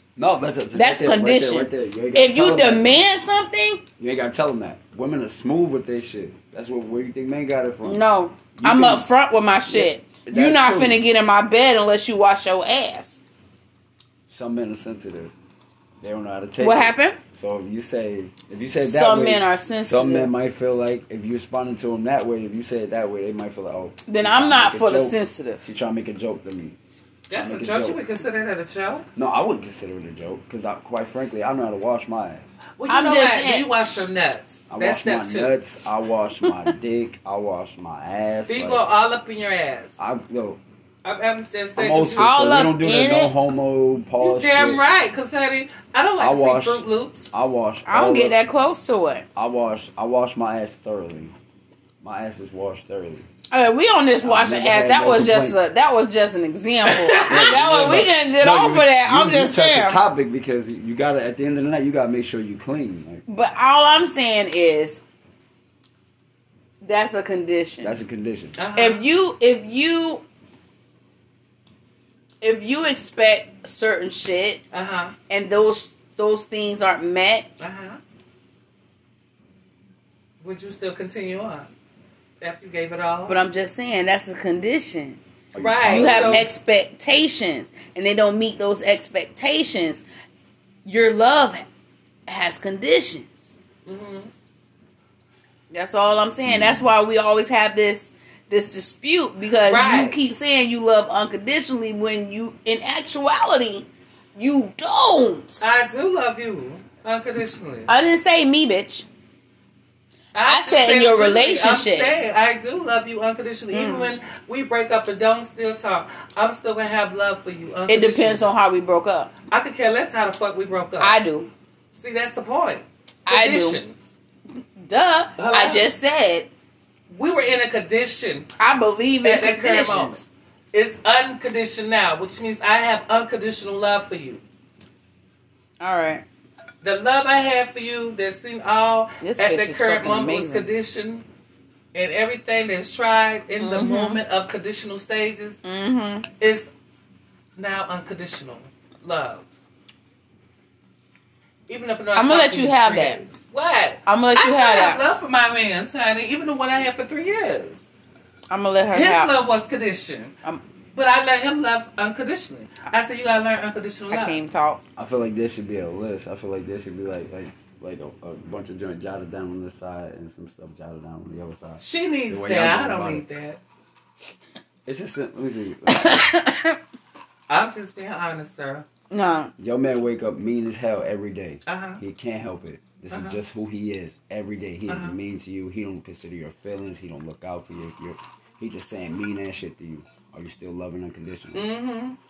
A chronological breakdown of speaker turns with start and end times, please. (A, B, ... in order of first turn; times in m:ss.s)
0:00.2-0:03.1 A
0:00.7-0:03.8 B
0:04.0-0:09.1 A
0:07.8-0:13.2 B
0:09.7-0:11.0 A
0:14.3-0:15.3 A
0:16.0-0:26.8 A
0:16.6-0:17.2 B
0:18.8-0:20.3 B
0:24.1-0:25.6 B
0:27.3-0:29.0 C
0:27.3-0:28.0 A
0:29.2-0:32.5 A
0:32.8-0:35.5 C
0:32.9-0:33.7 B
0:34.7-0:38.9 A
0:38.5-0:40.0 C
0:40.0-0:40.6 A
0:41.0-0:42.5 C
0:41.8-0:44.8 A
0:42.2-0:43.3 B
0:44.2-0:47.3 C
0:46.2-0:48.4 A
0:47.9-0:49.2 B
0:49.4-0:51.3 A
0:52.0-0:53.3 A
0:53.5-1:00.0 B
0:54.2-0:55.6 A
0:56.8-0:57.6 C
0:57.2-1:03.2 A
1:03.3-1:05.0 B
1:06.8-1:08.0 B
1:07.8-1:08.6 A
1:08.6-1:09.0 C
1:08.8-1:10.2 B
1:12.4-1:14.6 B
1:14.7-1:15.1 C
1:15.3-1:17.5 B
1:17.6-1:18.0 C
1:20.4-1:21.7 C
1:22.4-1:23.4 C
1:23.3-1:25.2 B
1:25.5-1:26.5 A
1:25.6-1:26.5 C
1:25.9-1:30.0 B
1:30.9-1:31.6 B
1:32.3-1:33.6 B
1:33.9-1:34.3 C
1:35.7-1:45.6 B
1:36.5-1:36.8 A
1:39.6-1:40.2 C
1:45.6-1:47.9 C
1:47.9-1:49.0 B
1:50.3-1:58.5 C
1:50.4-1:52.3 B
1:53.7-1:54.1 B
1:57.9-1:59.3 B
1:59.5-2:01.2 C
2:01.0-2:01.5 B
2:02.0-2:04.0 C
2:03.3-2:03.8 B
2:04.8-2:06.5 B
2:05.4-2:05.9 C
2:07.1-2:08.5 C
2:08.6-2:10.2 B
2:09.2-2:10.2 C
2:10.7-2:14.4 C
2:15.8-2:16.2 B
2:16.8-2:21.2 C
2:19.2-2:20.7 B
2:21.9-2:25.6 C
2:23.6-2:24.2 B
2:25.6-2:26.3 B
2:26.4-2:26.7 C
2:27.6-2:29.5 C
2:31.7-2:37.9 C
2:32.2-2:33.2 B
2:34.0-2:35.0 B
2:38.5-2:39.3 B
2:38.9-2:40.4 C
2:40.9-2:44.4 C
2:44.1-2:44.8 B
2:45.0-2:53.2 A
2:51.8-2:53.6 C
2:54.9-2:56.3 A
2:55.9-2:56.8 B
2:57.5-2:58.9 C
2:59.1-2:59.5 B
2:59.6-3:11.7 A
3:01.7-3:02.0 C
3:03.1-3:03.4 C
3:04.9-3:05.2 C
3:11.5-3:12.2 C